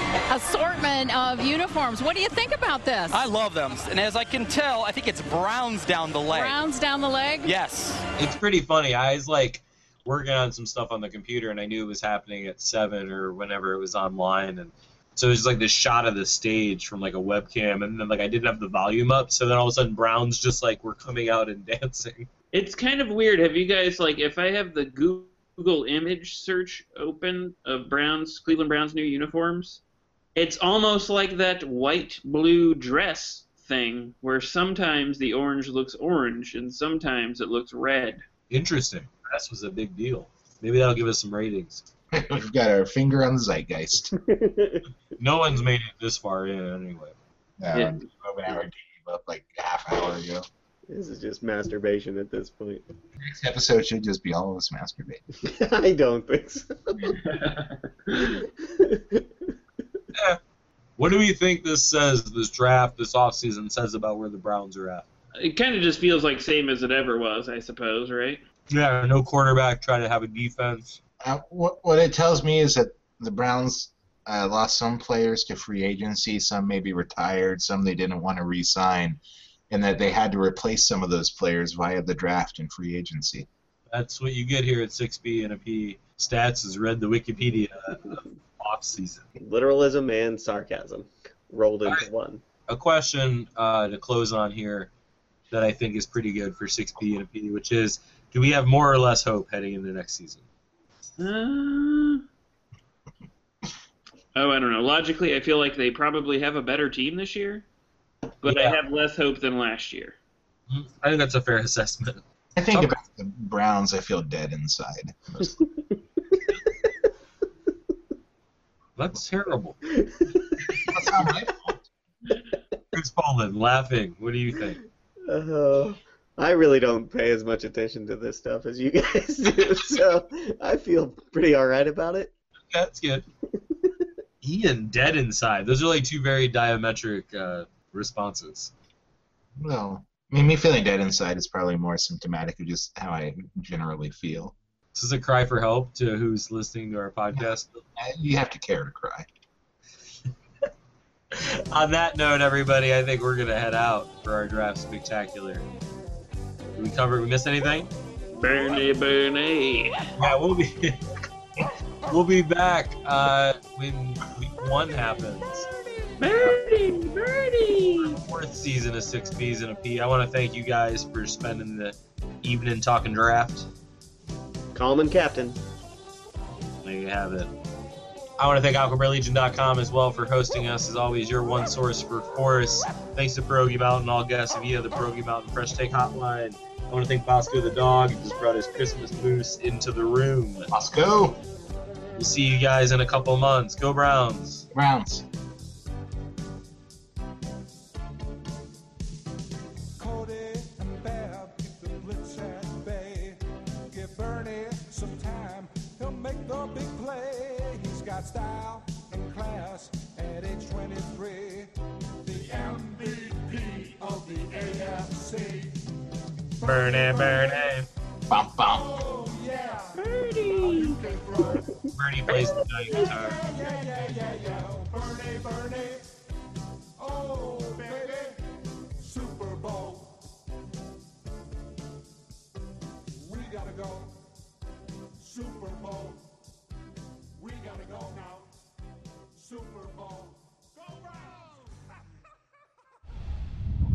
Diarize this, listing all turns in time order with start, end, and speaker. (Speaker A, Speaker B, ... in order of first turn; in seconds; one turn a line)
Speaker A: 0.3-3.2
Speaker B: 3.1-6.6
Speaker A: 6.3-7.5
Speaker B: 7.4-8.0
Speaker C: 8.2-22.3
Speaker D: 22.5-29.8
Speaker D: 30.4-38.2
Speaker C: 38.5-41.8
Speaker E: 42.1-44.1
Speaker F: 44.3-44.8
Speaker C: 45.2-47.1
Speaker E: 47.6-50.4
Speaker D: 47.7-48.0
Speaker F: 50.9-52.8
Speaker E: 53.2-55.2
Speaker F: 55.4-57.2
Speaker D: 57.1-58.4
Speaker F: 58.2-59.5
Speaker C: 60.1-60.4
Speaker C: 61.0-65.0
Speaker D: 65.4-68.4
Speaker C: 68.7-71.0
Speaker E: 71.2-83.5
Speaker C: 83.9-89.2
Speaker F: 89.4-92.4
Speaker C: 92.7-94.9
Speaker C: 95.5-100.4
Speaker D: 101.2-102.2
Speaker D: 104.3-107.7
Speaker D: 108.4-110.2
Speaker C: 108.5-108.8
Speaker C: 110.7-113.0
Speaker E: 112.6-115.5
Speaker C: 119.0-119.8
Speaker E: 120.8-121.8
Speaker C: 122.9-124.8
Speaker F: 125.3-132.3
Speaker C: 132.7-133.2
Speaker C: 134.4-138.7
Speaker E: 139.6-144.5
Speaker C: 144.9-147.8
Speaker E: 147.9-149.2
Speaker C: 151.3-155.7
Speaker C: 156.8-157.9
Speaker D: 158.3-160.1
Speaker C: 160.2-161.0
Speaker C: 162.1-165.7
Speaker D: 166.2-168.2
Speaker C: 168.0-173.7
Speaker F: 174.7-175.6
Speaker C: 176.8-177.5
Speaker C: 178.4-190.7
Speaker E: 190.7-191.4
Speaker C: 192.2-194.7
Speaker E: 194.7-195.2
Speaker G: 200.0-203.4
Speaker G: 203.9-211.7
Speaker G: 212.2-215.8
Speaker C: 216.6-217.9
Speaker G: 216.6-217.6
Speaker E: 218.3-218.9
Speaker G: 218.8-219.9
Speaker D: 220.0-221.0
Speaker G: 220.6-221.6
Speaker C: 221.9-223.4
Speaker G: 223.3-226.0
Speaker G: 227.0-228.3
Speaker G: 229.0-230.1
Speaker G: 233.2-234.1
Speaker G: 235.2-236.2
Speaker G: 237.4-238.5
Speaker G: 239.4-240.3